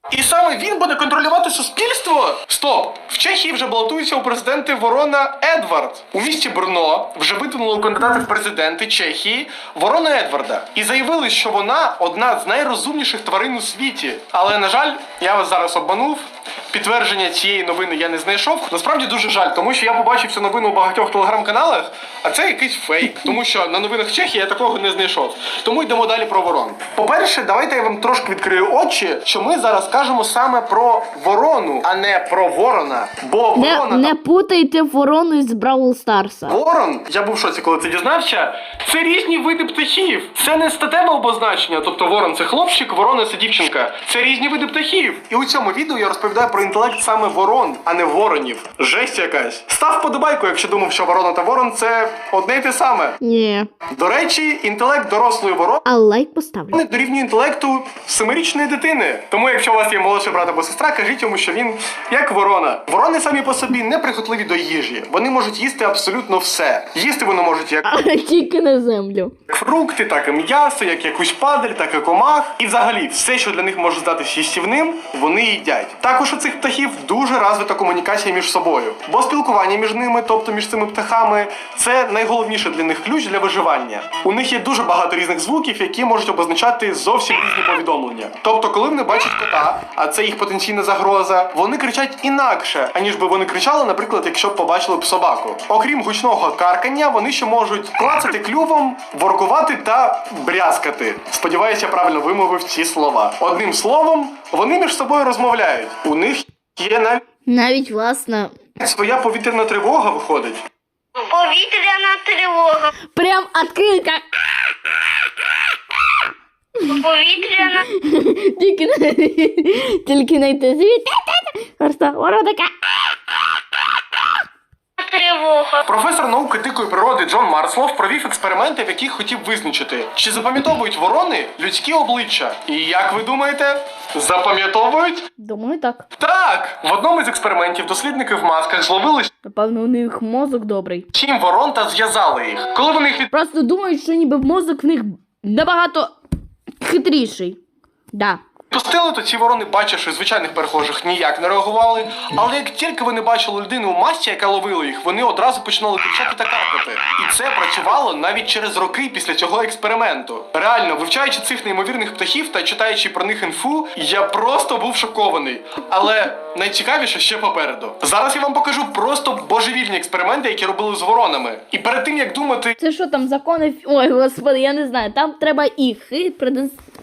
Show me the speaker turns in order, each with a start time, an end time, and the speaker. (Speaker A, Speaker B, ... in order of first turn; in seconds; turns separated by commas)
Speaker A: 0.1-34.2, Speaker B: 33.6-36.6, Speaker A: 36.5-53.2, Speaker B: 53.2-53.7, Speaker A: 53.9-55.8, Speaker B: 55.8-56.8, Speaker A: 56.7-67.9, Speaker B: 67.8-69.3, Speaker A: 69.5-107.2, Speaker B: 107.5-108.5, Speaker A: 108.8-110.6, Speaker C: 111.2-112.9, Speaker B: 113.0-114.2, Speaker B: 116.8-122.7, Speaker C: 116.9-117.8, Speaker C: 125.0-125.8, Speaker A: 125.8-135.3, Speaker B: 135.4-136.0, Speaker A: 136.2-139.3, Speaker B: 139.4-141.1, Speaker A: 141.1-143.3, Speaker B: 143.3-146.1, Speaker B: 146.8-147.6, Speaker B: 148.1-148.4, Speaker A: 148.7-172.8, Speaker B: 172.8-176.8